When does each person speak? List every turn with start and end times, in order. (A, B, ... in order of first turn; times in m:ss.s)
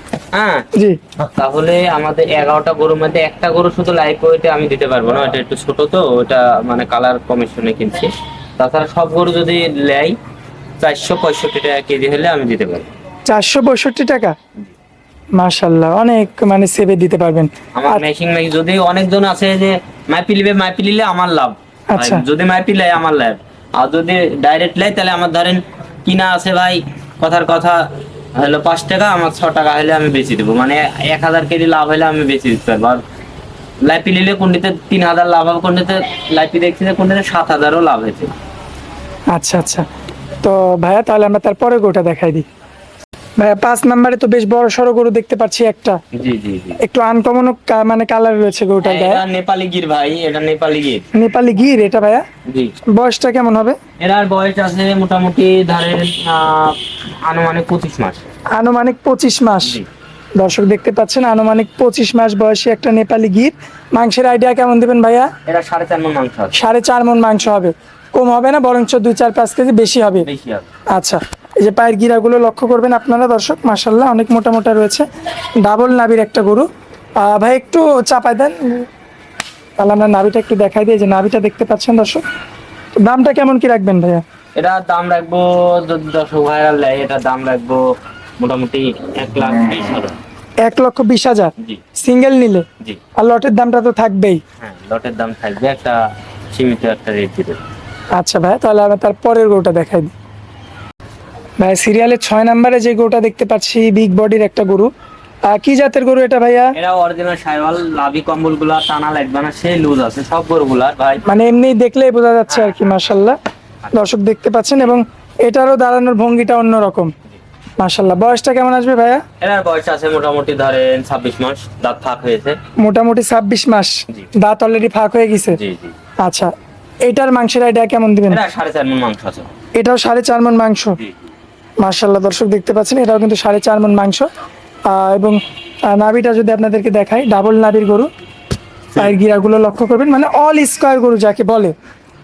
0:00.3-0:00.6 A
0:01.2-0:10.1 A
0:10.8-0:12.9 A
0:13.3-0:14.3 B
0:15.4-0:18.0 B
0:17.8-0:27.8 A
0:21.9-0:22.2 B
0:28.4-0:33.0 A
0:33.9-0:38.3 A
0:39.3-0:39.8 B
0:40.4-0:42.4 B
0:43.4-0:46.0 B
0:46.1-0:46.8 A
0:46.8-0:49.2 B
0:48.8-0:51.1 A
0:51.1-0:52.2 B
0:52.5-0:52.7 A
0:53.0-0:53.8 B
0:54.0-0:58.3 A
0:58.6-0:59.8 B
1:00.4-1:05.3 B
1:05.4-1:06.6 A
1:06.5-1:10.3 B
1:10.2-1:10.7 A
1:10.9-1:15.0 B
1:15.6-1:16.7 B
1:17.2-1:18.9 B
1:19.8-1:22.2 B
1:23.0-1:24.2 B
1:24.6-1:27.8 A
1:28.4-1:30.2 A
1:30.6-1:32.6 B
1:33.2-1:34.4 B
1:34.6-1:36.0 A
1:36.5-1:37.6 A
1:38.2-1:40.1 B
1:41.6-1:44.9 B
1:45.5-1:46.7 B
1:46.7-1:51.2 A
1:51.3-1:53.4 B
1:52.5-1:52.9 A
1:53.9-1:57.1 B
1:57.8-1:59.2 B
1:59.4-2:02.6 A
2:02.8-2:05.6 B
2:05.5-2:05.9 A
2:06.2-2:06.5 B
2:07.1-2:08.4 B
2:08.3-2:09.5 A
2:09.8-2:11.0 B
2:11.0-2:11.2 A
2:11.8-2:14.3 B
2:14.9-2:18.1 B
2:19.0-2:21.7 B